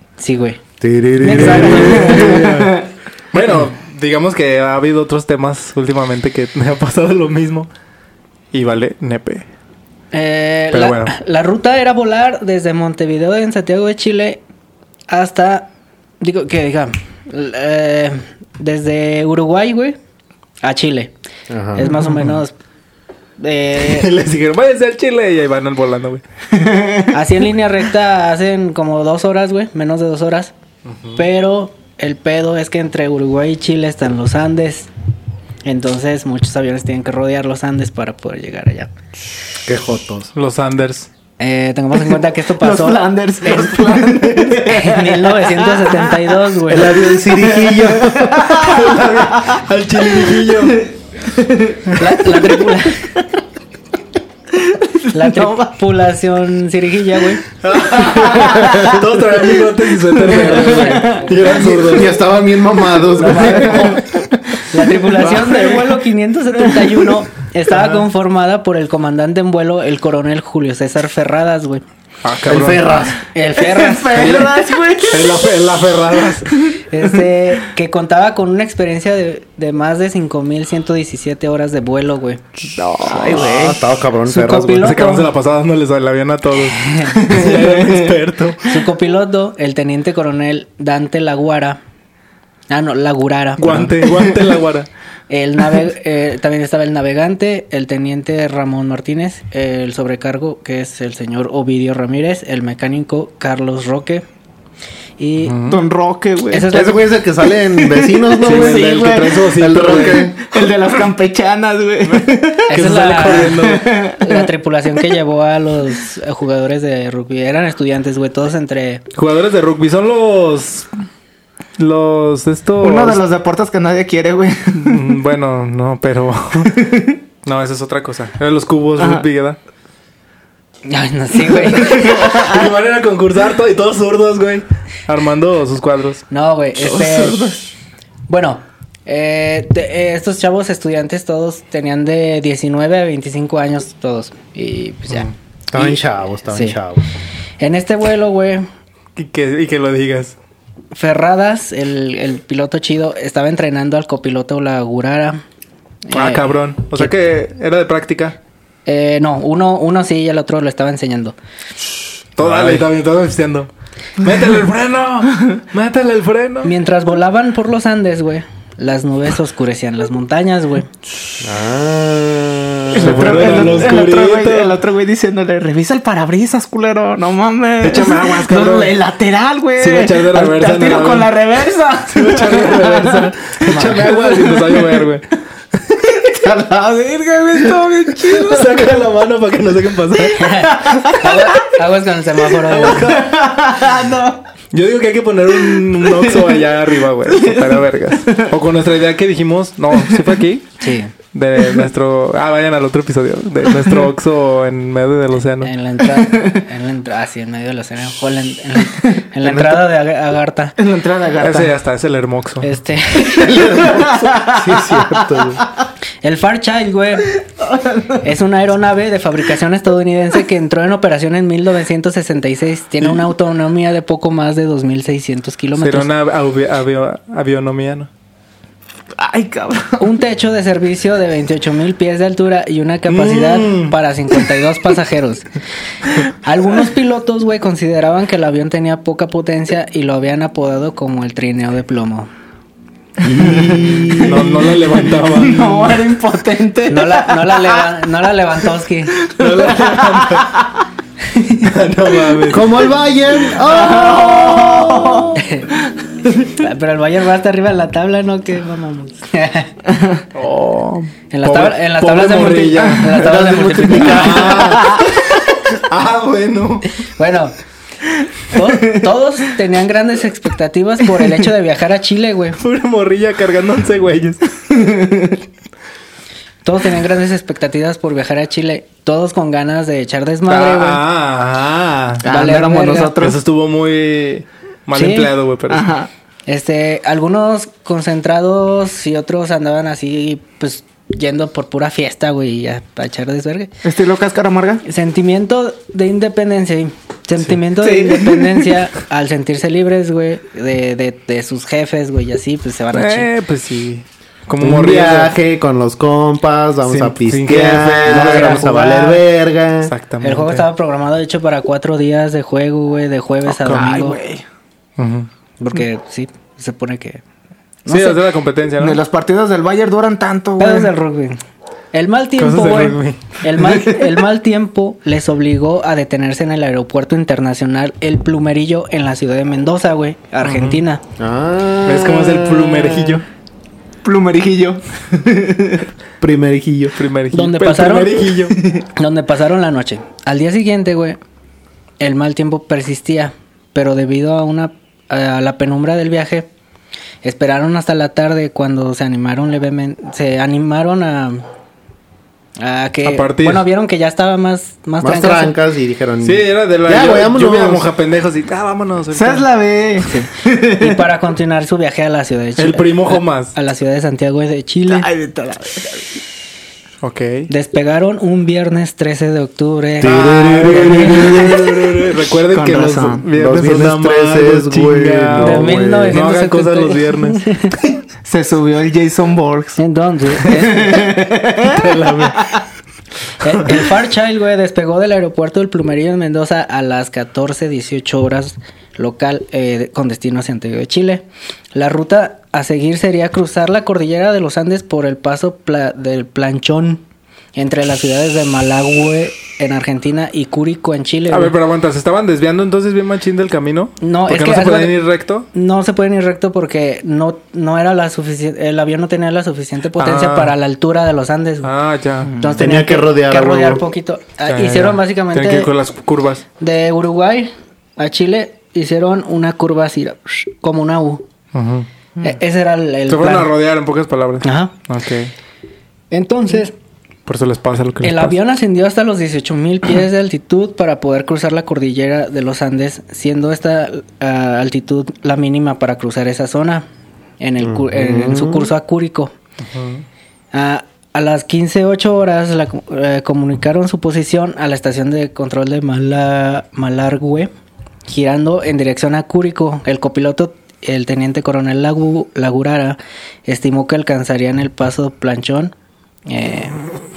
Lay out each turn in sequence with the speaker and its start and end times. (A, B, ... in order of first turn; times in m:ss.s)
0:00.2-0:00.6 A
0:00.8-0:02.4 B
0:01.2-0:02.4 A
0:01.2-0:07.7 C
0:02.1-0:02.8 D
0:08.5-0:09.4 C
0:10.1-0:14.4 A
0:10.7-0:11.1 C
0:15.1-0:20.0 A
0:20.6-0:21.1 A
0:21.5-0:21.9 B
0:21.8-0:22.5 A
0:22.0-0:22.3 C
0:23.4-0:24.1 A
0:23.8-0:26.2 C
0:26.5-0:27.1 D
0:27.1-0:30.5 A
0:31.2-0:34.9 A
0:35.6-0:38.9 A
0:39.6-0:40.3 B
0:40.3-0:41.1 C
0:41.4-0:44.1 A
0:42.6-0:49.5 D
0:44.0-0:44.6 C
0:44.6-0:47.0 A
0:46.7-0:48.5 B
0:48.5-0:50.8 C
0:50.1-0:52.4 D
0:52.0-0:53.1 A
0:54.5-0:55.7 D
0:55.1-0:57.4 A
0:57.6-1:02.2 C
0:57.9-0:59.0 D
0:59.6-1:02.0 D
1:00.8-1:01.0 A
1:01.7-1:04.0 B
1:03.1-1:04.0 A
1:03.4-1:03.9 C
1:03.4-1:04.1 D
1:04.7-1:11.8 A
1:05.1-1:05.9 C
1:07.7-1:08.0 C
1:12.2-1:13.1 C
1:12.5-1:13.2 B
1:13.3-1:14.5 A
1:13.5-1:15.6 D
1:14.1-1:16.5 C
1:16.3-1:16.8 D
1:16.9-1:22.4 A
1:22.6-1:23.5 C
1:23.0-1:23.8 D
1:23.4-1:24.9 B
1:24.3-1:25.3 A
1:24.8-1:28.7 C
1:27.1-1:28.1 D
1:28.6-1:31.8 A
1:32.7-1:34.1 A
1:33.6-1:34.9 C
1:35.3-1:44.2 A
1:45.2-1:45.6 A
1:45.4-1:45.8 C
1:45.7-1:46.7 D
1:46.5-1:47.2 A
1:46.7-1:50.4 B
1:47.5-1:52.7 D
1:48.4-1:50.3 C
1:52.1-1:54.0 C
1:52.7-1:59.0 A
1:53.4-1:54.5 D
1:59.1-2:00.9 C
2:01.8-2:03.2 C
2:02.8-2:05.1 D
2:04.8-2:06.8 C
2:07.4-2:09.6 C
2:09.0-2:09.2 D
2:10.9-2:12.2 A
2:11.8-2:12.6 D
2:12.0-2:16.2 C
2:16.3-2:17.5 A
2:16.8-2:17.7 D
2:18.3-2:26.0 A
2:25.7-2:27.0 B
2:26.5-2:26.8 A
2:27.6-2:28.6 A
2:29.2-2:30.4 C
2:30.9-2:35.4 A
2:36.1-2:37.1 A
2:36.1-2:38.4 C
2:38.8-2:41.4 A
2:42.4-2:46.7 C
2:42.4-2:42.8 B
2:46.6-2:50.9 A
2:51.4-2:53.9 B
2:52.9-3:05.0 D
2:53.0-2:54.8 C
2:57.8-2:58.9 C
2:59.8-3:01.3 C
3:02.1-3:06.2 C
3:03.7-3:04.0 A
3:06.1-3:08.9 D
3:08.3-3:10.6 C
3:10.3-3:11.6 D
3:10.4-3:13.1 A
3:12.6-3:13.4 C
3:12.9-3:14.4 D
3:14.7-3:20.7 C
3:15.7-3:16.6 D
3:17.3-3:17.8 D
3:20.8-3:21.1 A
3:21.3-3:25.7 C
3:25.6-3:30.8 A
3:29.4-3:29.9 B
3:30.8-3:31.7 D
3:31.4-3:32.7 C
3:32.6-3:33.9 A
3:33.3-3:35.6 B
3:33.6-3:35.2 D
3:36.2-3:37.4 A
3:37.6-3:38.2 D
3:38.2-3:46.1 A
3:45.8-3:48.1 C
3:49.1-3:50.1 D
3:50.0-3:55.5 A
3:53.1-3:53.9 C
3:56.3-4:02.3 A
4:03.2-4:07.9 D
4:03.2-4:04.6 B
4:04.2-4:06.0 C
4:06.9-4:09.2 A
4:09.2-4:10.6 D
4:09.4-4:10.5 C
4:11.3-4:11.6 A
4:11.6-4:12.7 C
4:12.4-4:15.4 B
4:13.5-4:15.4 D
4:15.4-4:15.7 A
4:16.2-4:16.6 D
4:16.6-4:19.8 A
4:20.3-4:26.9 C
4:21.3-4:24.6 A
4:23.2-4:24.9 B
4:27.1-4:27.5 A
4:28.5-4:32.6 A
4:32.6-4:34.6 C
4:34.7-4:35.3 D
4:36.6-4:41.0 A
4:40.5-4:42.2 C
4:42.2-4:43.4 D
4:42.2-4:43.2 A
4:43.2-4:45.9 C
4:44.9-4:45.3 A
4:45.7-4:46.1 D
4:46.5-4:53.7 A
4:53.8-4:54.8 D
4:54.8-5:03.3 A
4:57.8-4:58.8 D
5:02.9-5:05.3 C
5:04.6-5:09.9 B
5:06.8-5:08.7 C
5:08.0-5:09.2 A
5:09.8-5:10.7 C
5:10.2-5:14.2 A
5:13.5-5:14.4 D
5:15.0-5:15.3 C
5:15.6-5:17.2 A
5:17.9-5:18.2 A
5:17.9-5:19.0 C
5:18.8-5:20.9 D
5:20.6-5:21.4 A
5:21.9-5:31.0 A
5:22.4-5:23.4 C
5:30.4-5:30.8 C
5:31.2-5:33.2 B
5:31.8-5:33.2 C
5:34.0-5:35.8 D
5:36.2-5:37.0 B
5:37.0-5:38.6 C
5:37.3-5:38.3 A
5:38.9-5:41.2 A
5:42.0-5:46.5 A
5:47.2-5:51.4 A
5:52.6-5:55.6 A
5:53.0-5:53.6 C
5:55.0-5:57.9 B
5:56.2-5:59.5 C
5:59.1-6:01.0 D
6:00.6-6:05.1 A
6:02.6-6:03.5 C
6:04.9-6:06.1 D
6:07.0-6:07.5 C
6:07.5-6:11.3 A
6:10.0-6:11.7 B
6:10.0-6:17.9 C
6:11.1-6:11.8 D
6:12.5-6:13.2 D
6:13.4-6:16.2 B
6:15.4-6:17.8 A
6:18.2-6:19.8 D
6:19.8-6:21.1 A
6:20.4-6:22.6 D
6:21.6-6:22.6 C
6:23.4-6:37.0 A
6:37.6-6:41.5 A
6:41.3-6:45.5 C
6:44.0-6:45.0 A
6:45.5-6:51.7 A
6:50.0-6:50.5 C
6:51.6-6:52.3 C
6:52.2-6:52.6 D
6:52.4-6:55.7 A
6:52.6-6:53.8 B
6:54.5-6:56.4 C
6:56.6-7:01.2 A
7:01.5-7:01.9 C
7:02.2-7:03.5 A
7:03.1-7:05.3 C
7:04.4-7:04.8 A
7:06.1-7:06.8 A
7:07.2-7:08.4 C
7:08.0-7:16.9 A
7:17.4-7:19.3 A
7:17.6-7:18.7 B
7:19.7-7:20.0 C
7:20.5-7:27.5 A
7:28.1-7:35.7 A
7:36.3-7:36.9 A